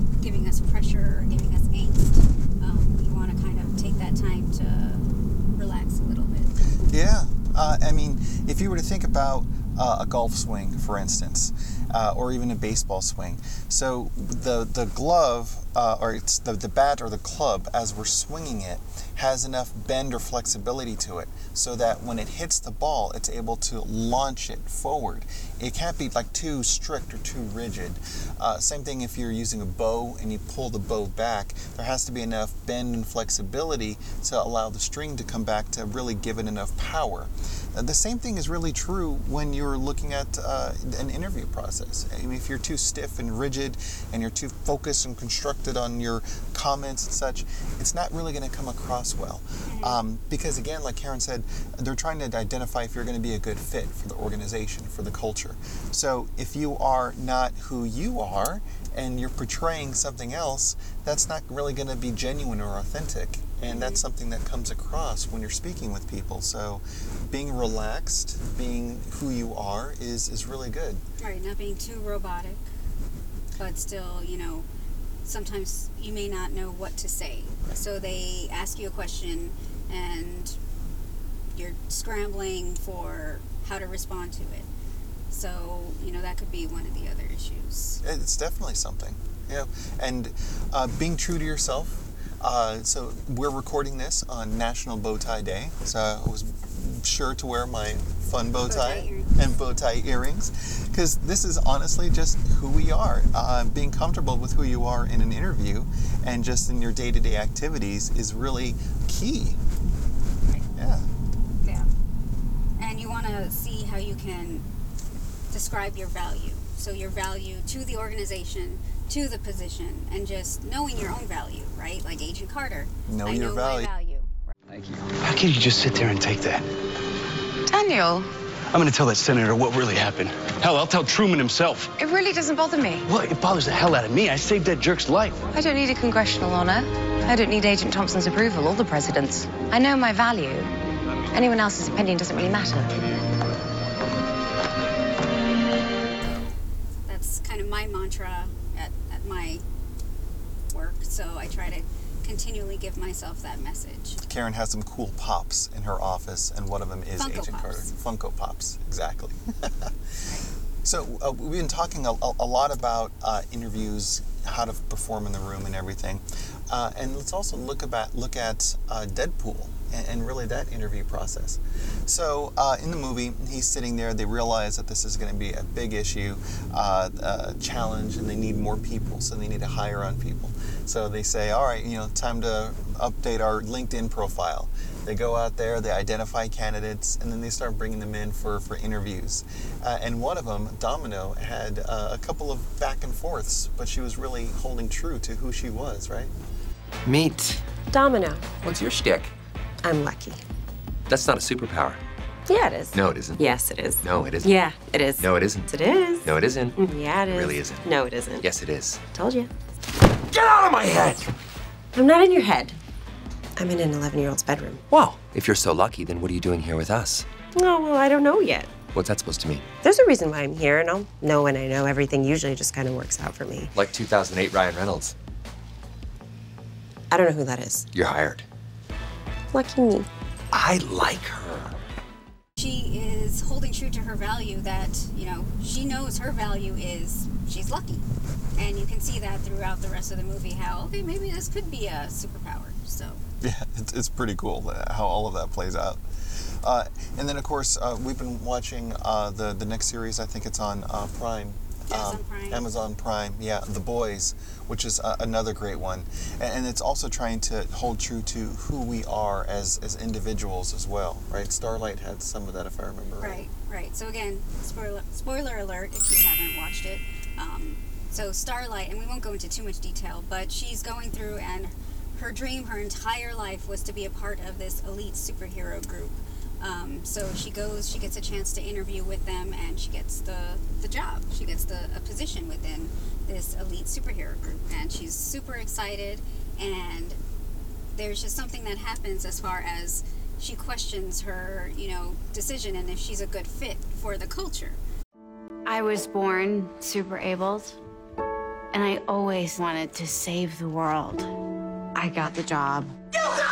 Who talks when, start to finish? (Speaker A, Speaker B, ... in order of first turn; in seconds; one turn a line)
Speaker A: 0.2-6.5
Speaker B: 6.9-71.0
Speaker A: 49.6-50.0
Speaker A: 63.6-64.0
Speaker A: 71.2-72.6
Speaker A: 73.6-74.7
Speaker A: 75.2-80.6
Speaker A: 81.5-84.7
Speaker A: 85.3-88.0
Speaker B: 88.0-109.6
Speaker A: 98.6-99.3
Speaker B: 110.8-111.1
Speaker A: 111.6-111.9
Speaker A: 112.8-114.7
Speaker A: 115.5-124.5
Speaker B: 123.1-123.9
Speaker C: 124.7-126.7
Speaker D: 127.7-128.3
Speaker C: 128.7-131.9
Speaker D: 131.9-133.0
Speaker C: 133.1-135.4
Speaker D: 135.5-140.7
Speaker D: 141.3-143.1
Speaker A: 146.2-146.6
Speaker A: 147.1-149.6
Speaker A: 150.7-154.2
Speaker B: 154.2-159.9
Speaker A: 157.2-157.9
Speaker B: 160.8-196.3
Speaker E: 197.0-197.7
Speaker F: 197.9-198.6
Speaker E: 198.6-199.3
Speaker F: 199.8-200.4
Speaker E: 201.1-202.0
Speaker F: 202.5-208.5
Speaker E: 202.9-204.6
Speaker E: 205.2-205.7
Speaker E: 206.2-207.9
Speaker E: 208.4-209.0
Speaker F: 209.1-209.5
Speaker E: 210.3-211.3
Speaker F: 211.9-212.8
Speaker F: 213.6-214.8
Speaker E: 214.9-217.3
Speaker F: 217.5-218.8
Speaker E: 218.9-219.7
Speaker F: 219.8-223.7
Speaker E: 223.7-225.1
Speaker F: 227.1-227.9
Speaker E: 227.9-228.4
Speaker F: 229.5-230.1
Speaker E: 230.5-231.8
Speaker A: 232.6-243.2
Speaker B: 243.4-263.4
Speaker A: 251.9-252.7
Speaker A: 263.2-287.2
Speaker A: 287.9-294.8
Speaker G: 295.6-297.8
Speaker G: 298.7-301.3
Speaker G: 301.9-302.9